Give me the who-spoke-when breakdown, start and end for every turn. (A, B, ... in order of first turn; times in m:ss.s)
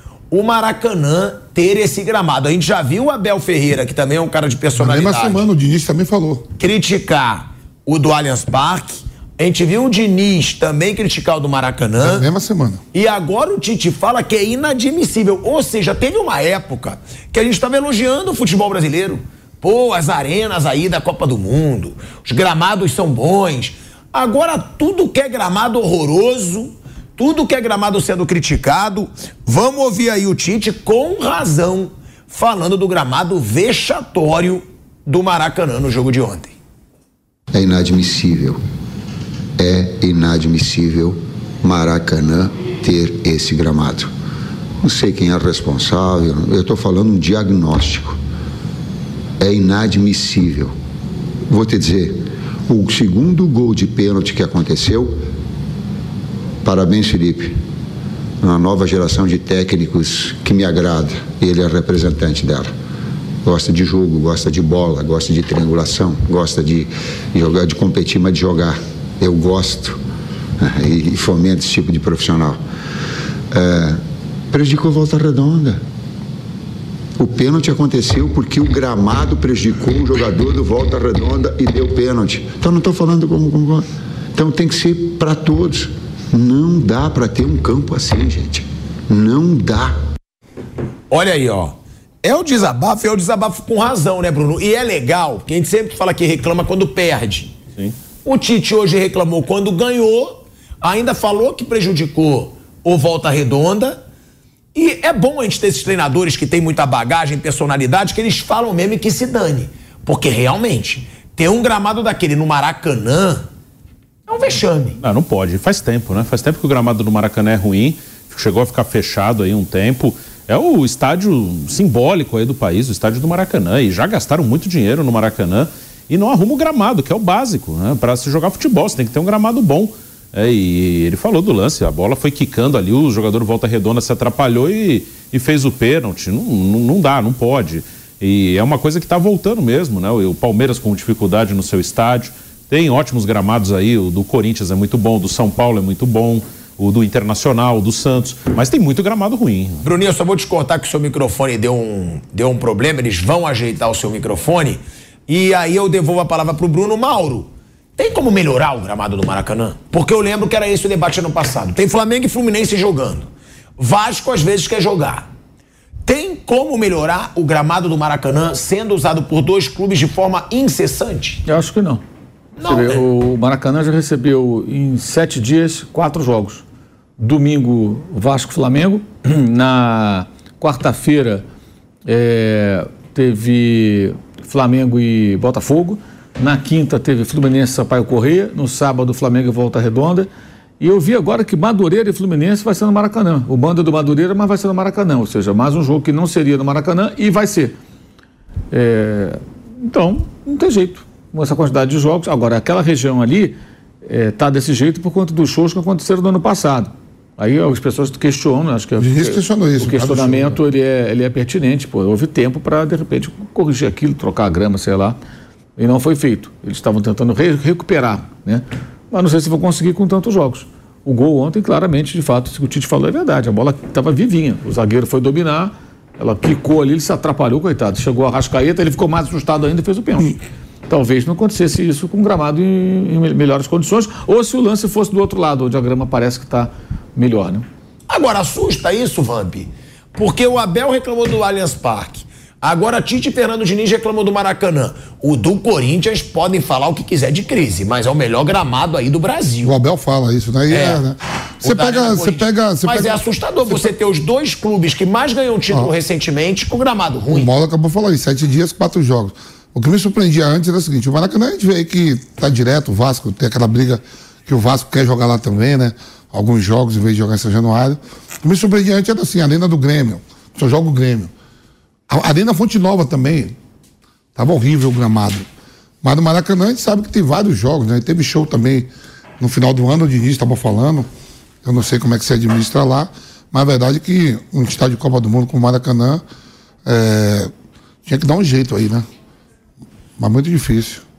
0:00.3-0:05.4 A
0:04.8-0:06.5 B
0:06.6-0:12.2 A
0:12.0-0:12.8 B
0:12.9-0:36.5 A
0:37.5-0:38.6 C
0:39.6-0:44.1 C
0:44.8-0:48.2 C
0:49.4-0:50.7 C
0:51.5-0:55.3 C
0:56.6-0:57.6 C
0:58.4-1:02.7 C
1:03.4-1:10.0 C
1:10.6-1:12.6 C
1:13.5-1:15.8 C
1:17.2-1:30.0 C
1:31.1-1:37.6 A
1:38.2-1:44.0 A
1:44.7-1:53.4 A
1:54.3-1:55.0 A
1:55.0-2:29.8 D
2:29.8-2:45.3 A
2:46.0-2:51.4 A
2:51.4-2:52.0 E
2:52.6-2:53.0 A
2:52.6-2:56.6 E
2:57.2-3:01.4 E
3:02.1-3:10.3 E
3:10.8-3:17.7 E
3:18.7-3:35.2 E
3:29.0-3:30.6 B
3:35.8-3:50.4 E
3:50.9-3:57.6 E
3:58.1-4:09.7 A
4:09.6-4:13.9 B
4:10.7-4:11.0 A
4:11.6-4:17.5 A
4:17.3-4:31.3 B
4:32.1-4:33.6 B
4:34.3-4:35.4 B
4:36.0-4:38.9 B
4:39.4-4:41.1 B
4:41.6-4:46.2 B
4:46.8-4:47.5 B
4:48.0-4:49.0 B
4:50.2-4:51.0 B